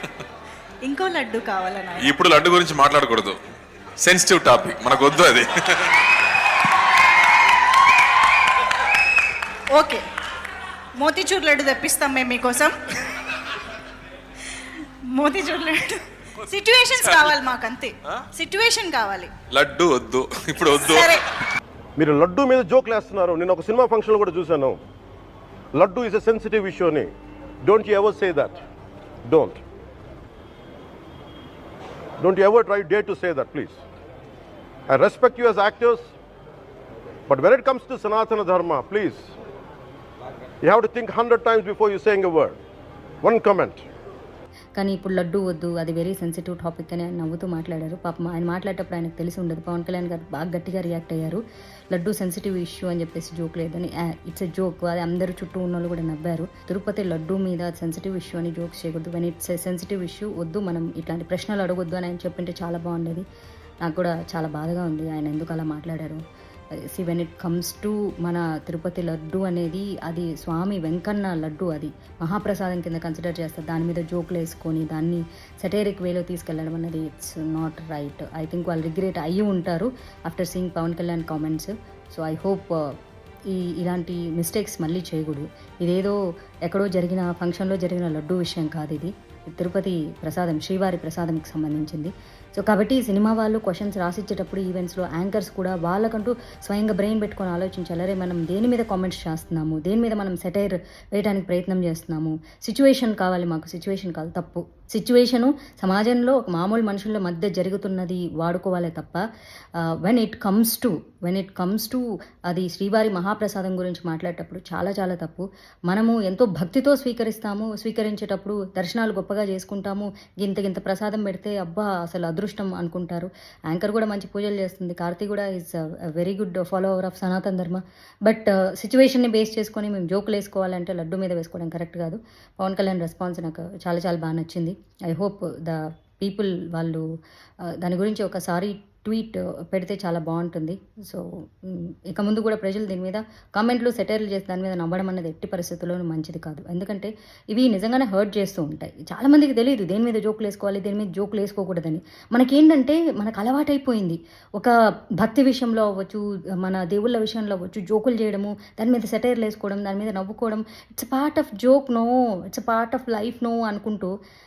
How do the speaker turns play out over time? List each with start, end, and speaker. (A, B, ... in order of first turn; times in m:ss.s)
0:00.8-0:02.1 A
0:02.0-0:03.4 B
0:04.0-0:05.9 B
0:09.7-0:10.0 A
0:11.0-0:12.8 A
0:15.1-0:19.3 A
0:19.5-0:21.2 B
0:20.8-0:21.2 A
0:22.0-0:24.8 C
0:25.7-0:27.1 C
0:27.6-0:28.6 C
0:29.2-0:29.6 C
0:32.2-0:33.8 C
0:34.9-0:36.1 C
0:37.3-0:39.3 C
0:40.6-0:42.6 C
0:43.2-0:43.8 C
0:44.8-1:03.2 D
1:03.8-1:06.2 D
1:06.9-1:22.9 D
1:23.5-1:49.2 D
1:50.0-2:17.0 D
2:17.8-2:44.1 D